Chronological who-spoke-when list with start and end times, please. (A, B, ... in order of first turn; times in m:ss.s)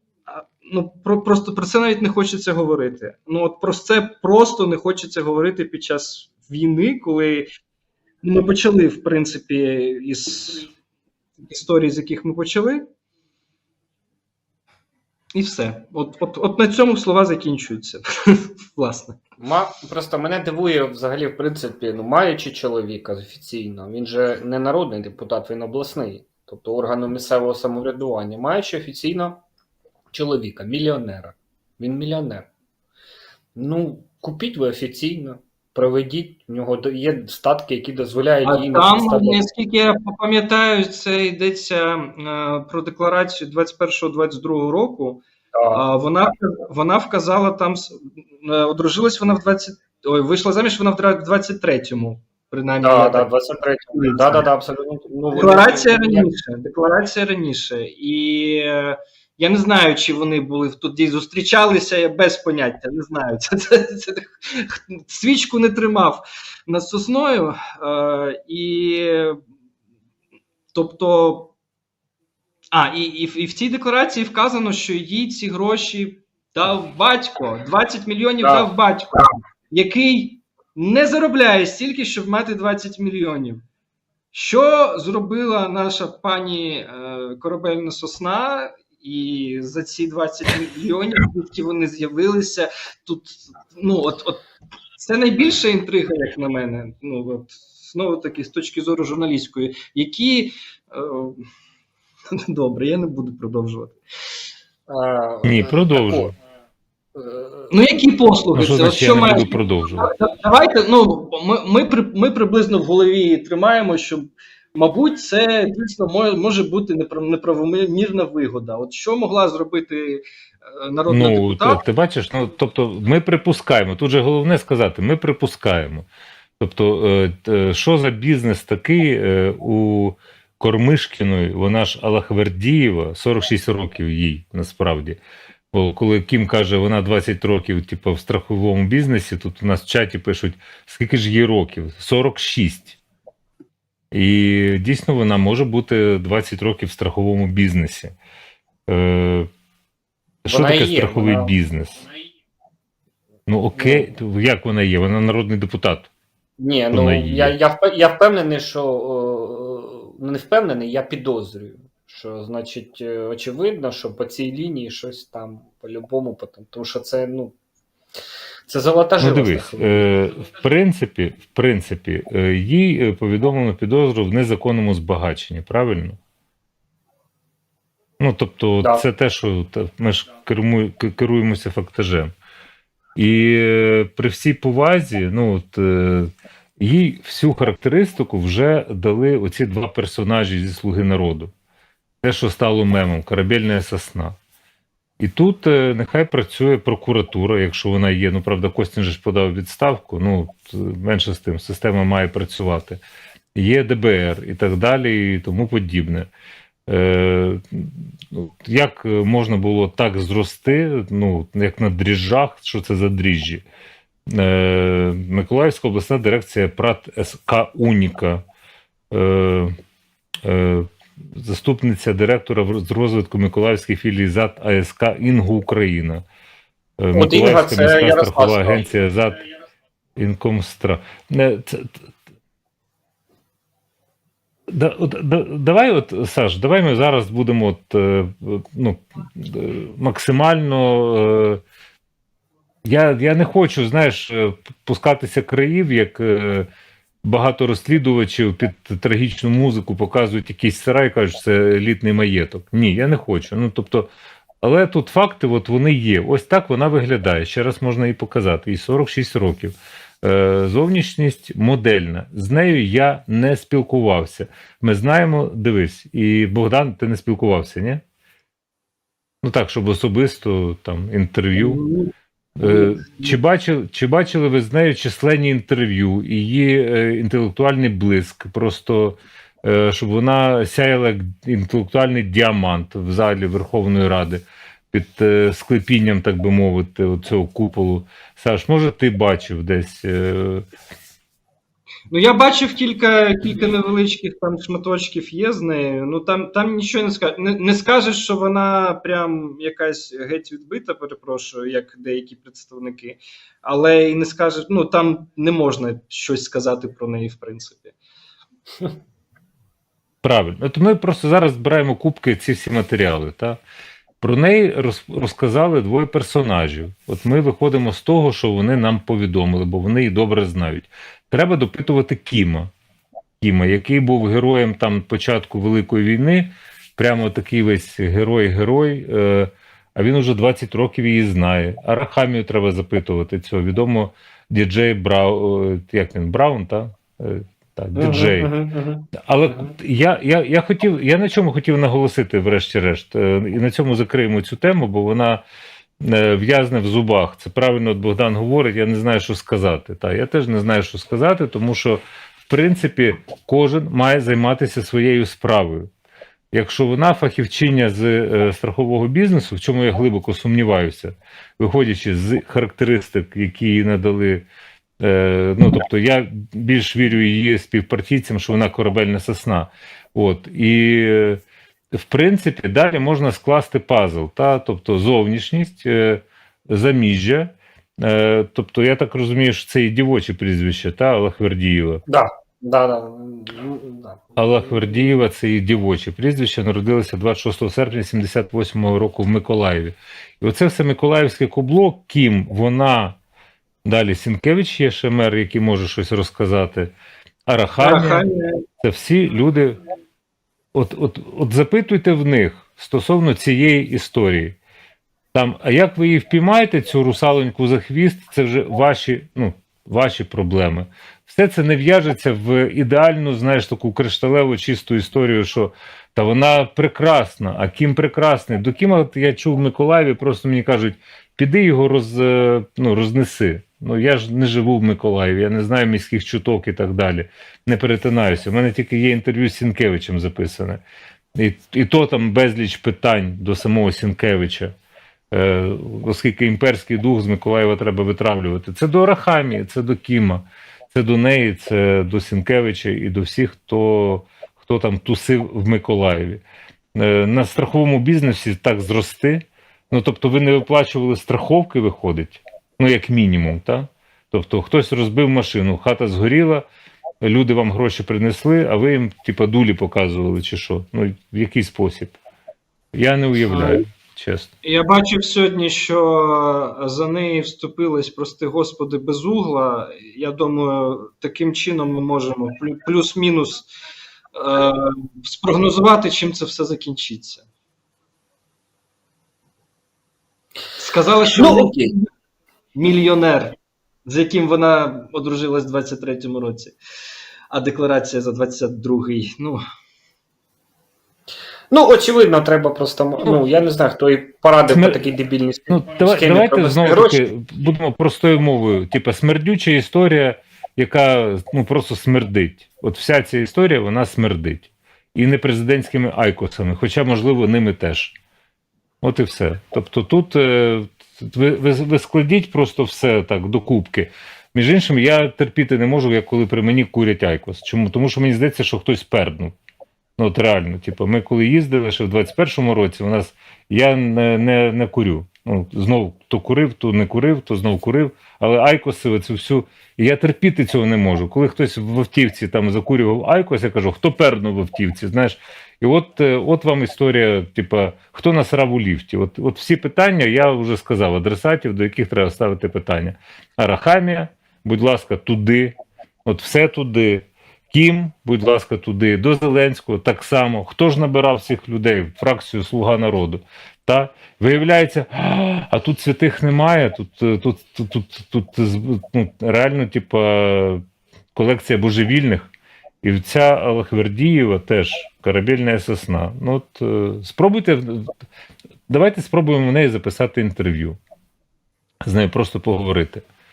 0:00.4-0:07.5 A
0:08.2-0:10.7 A
0:11.4-0:12.8 A
0:15.3-0:19.2 A
0:19.4-0:29.4 B
0:30.1-0:32.5 B
0:33.5-0:39.4 B
0:38.4-0:53.3 A
0:45.5-0:45.8 B
0:52.8-0:56.3 B
0:53.9-0:54.4 A
0:55.3-1:09.4 A
1:10.7-1:11.5 A
1:12.7-1:23.6 A
1:18.4-1:18.7 B
1:24.3-1:34.4 A
1:35.0-1:41.4 A
1:42.5-1:44.0 A
1:44.9-1:46.3 B
1:45.4-1:46.3 C
1:47.2-1:47.7 B
1:47.7-2:00.2 A
1:48.5-1:50.1 C
2:00.8-2:01.8 A
2:01.1-2:06.0 C
2:06.6-2:15.2 C
2:15.7-2:23.0 C
2:24.1-2:28.1 C
2:28.9-2:29.5 C
2:30.4-2:32.0 C
2:30.5-2:31.5 B
2:33.5-2:36.1 C
2:33.8-2:34.1 B
2:36.6-2:47.5 B
2:36.9-2:37.6 C
2:48.7-2:50.1 B
2:49.2-2:56.2 C
2:58.2-3:02.3 C
3:03.2-3:11.5 C
3:12.2-3:14.4 C
3:15.2-3:23.0 C
3:23.5-3:26.3 C
3:26.9-3:33.6 C
3:34.3-3:38.4 C
3:39.1-3:39.7 C
3:40.4-3:46.2 C
3:47.0-3:49.4 C
3:47.1-3:48.8 B
3:50.2-3:52.0 C
3:54.7-4:01.6 C
4:02.8-4:06.7 C
4:07.2-4:14.1 C
4:14.6-4:28.0 C
4:29.4-4:31.8 C
4:31.6-4:32.1 A
4:32.6-4:50.6 C
4:32.6-4:33.3 A
4:52.1-5:07.9 A
5:10.2-5:13.6 C
5:14.2-5:22.7 C
5:23.4-5:38.5 C
5:37.9-5:39.7 B
5:39.1-5:45.4 C
5:46.0-5:55.9 C
5:56.5-6:04.5 C
6:05.0-6:11.4 C
6:11.9-6:22.0 C
6:22.1-6:25.1 B
6:24.4-6:33.2 C
6:33.8-6:36.9 C
6:37.5-6:38.2 C
6:37.8-6:38.6 A
6:38.8-6:39.8 C
6:40.7-6:44.6 C
6:45.3-7:10.8 C
7:11.4-7:14.7 C
7:15.3-7:26.4 C
7:27.0-7:36.6 C
7:37.2-7:42.2 C
7:42.9-7:44.5 C
7:43.5-7:43.8 A
7:44.6-7:53.7 A
7:54.3-7:57.4 A
8:00.8-8:02.0 A
8:01.4-8:01.9 B
8:02.7-8:06.8 A
8:07.5-8:09.6 A
8:11.7-8:17.2 B
8:14.7-8:15.0 C
8:15.7-8:28.1 C
8:29.0-8:39.5 C
8:40.2-9:20.8 C
9:21.3-9:22.5 C
9:23.0-9:28.1 C
9:28.9-9:31.0 C
9:32.0-9:33.2 C